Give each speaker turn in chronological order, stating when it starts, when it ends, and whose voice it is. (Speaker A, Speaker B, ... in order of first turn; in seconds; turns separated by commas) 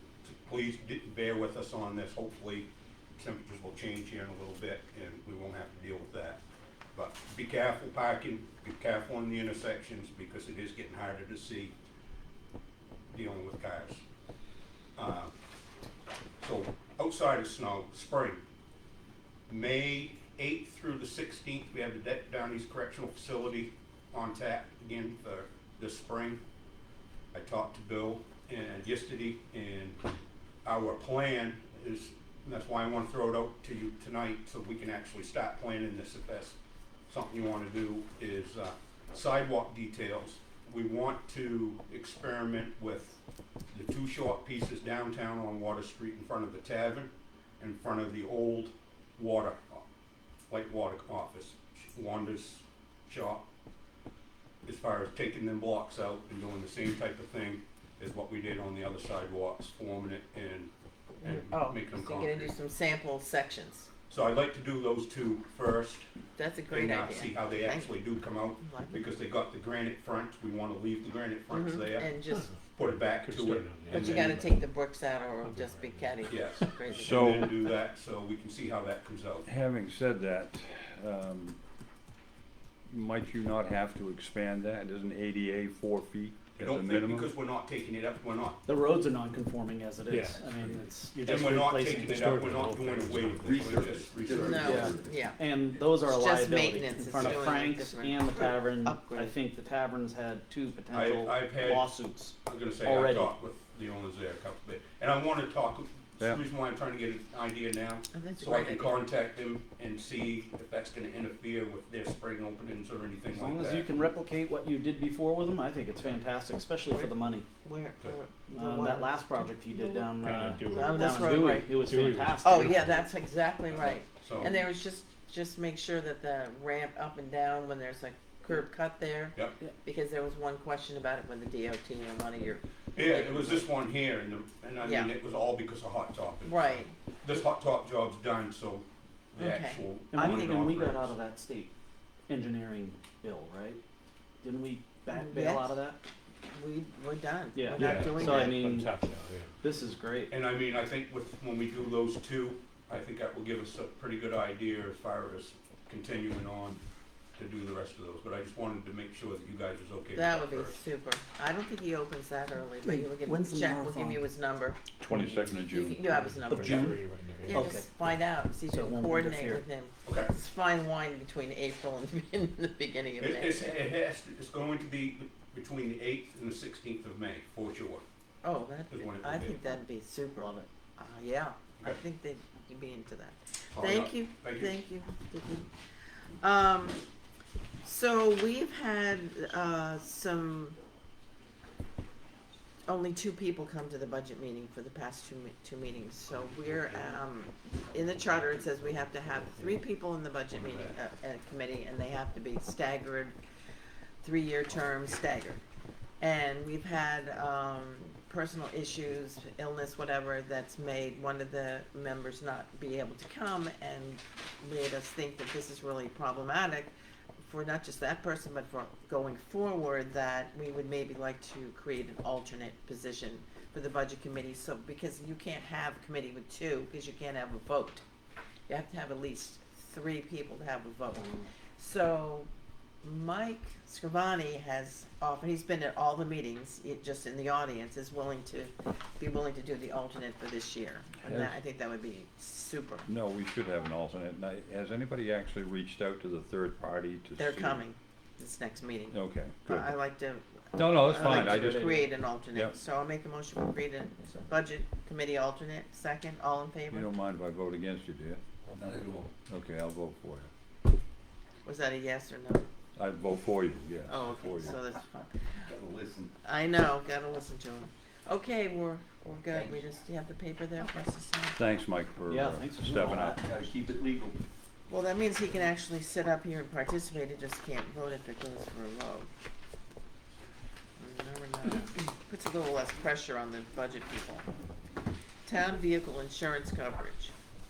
Speaker A: 0.2-6.4, Speaker A: 7.0-11.7, Speaker A: 13.1-14.0, Speaker A: 15.0-15.3, Speaker A: 16.4-18.4, Speaker A: 19.5-26.4, Speaker A: 27.3-30.0, Speaker A: 30.6-43.2, Speaker A: 43.7-49.8, Speaker A: 50.5-53.5, Speaker A: 54.6-62.6, Speaker B: 61.2-63.9, Speaker A: 64.1-66.1, Speaker B: 66.4-67.9, Speaker A: 66.7-74.4, Speaker B: 68.6-69.1, Speaker B: 71.5-72.5, Speaker C: 72.4-74.7, Speaker B: 73.9-77.5, Speaker C: 75.4-76.6, Speaker A: 76.3-79.5, Speaker D: 76.9-77.5, Speaker D: 79.5-81.6, Speaker D: 82.9-87.3, Speaker A: 86.6-88.6, Speaker E: 88.7-92.8, Speaker C: 90.1-91.5, Speaker A: 91.2-95.0, Speaker C: 92.0-93.7, Speaker F: 93.4-95.2, Speaker B: 94.3-95.4, Speaker E: 94.6-103.3, Speaker B: 96.0-99.3, Speaker A: 97.2-97.5, Speaker A: 100.9-101.9, Speaker A: 102.4-113.9, Speaker B: 108.1-109.0, Speaker E: 113.3-117.5, Speaker B: 117.6-120.1, Speaker E: 118.5-123.0, Speaker C: 120.2-123.0, Speaker B: 120.7-121.7, Speaker B: 122.4-133.7, Speaker A: 123.7-124.6, Speaker A: 132.9-141.2, Speaker B: 134.8-135.1, Speaker B: 136.4-136.9, Speaker B: 139.4-140.8, Speaker E: 140.1-141.7, Speaker E: 142.3-143.8, Speaker E: 144.4-146.0, Speaker B: 145.1-145.8, Speaker B: 146.5-148.6, Speaker E: 147.6-148.9, Speaker C: 147.7-149.5, Speaker E: 149.6-150.3, Speaker A: 150.3-156.8, Speaker A: 157.4-160.8, Speaker B: 160.1-164.9, Speaker E: 162.8-164.2, Speaker D: 165.0-166.1, Speaker E: 165.1-165.5, Speaker B: 165.5-173.7, Speaker C: 166.1-167.7, Speaker E: 166.5-168.1, Speaker E: 168.7-169.7, Speaker A: 170.1-170.3, Speaker A: 173.2-178.1, Speaker B: 178.4-185.7, Speaker A: 178.9-179.6, Speaker E: 180.4-180.7, Speaker A: 183.7-184.8, Speaker B: 186.4-187.0, Speaker B: 187.8-190.8, Speaker B: 192.9-203.4, Speaker B: 204.2-205.6, Speaker B: 206.2-228.0, Speaker B: 228.7-232.5, Speaker B: 233.0-243.1, Speaker D: 241.2-241.6, Speaker D: 243.1-247.8, Speaker B: 247.4-257.1, Speaker D: 249.1-249.9, Speaker D: 250.8-252.8, Speaker E: 251.2-252.1, Speaker D: 256.9-260.5, Speaker F: 258.8-259.3, Speaker B: 261.6-262.7, Speaker D: 263.0-264.8, Speaker B: 264.1-265.7, Speaker F: 265.6-266.3, Speaker B: 266.4-271.6, Speaker F: 269.5-269.8, Speaker D: 271.6-273.4, Speaker E: 272.3-273.4, Speaker F: 273.3-274.4, Speaker B: 274.9-279.3, Speaker B: 281.0-284.5, Speaker B: 285.4-287.3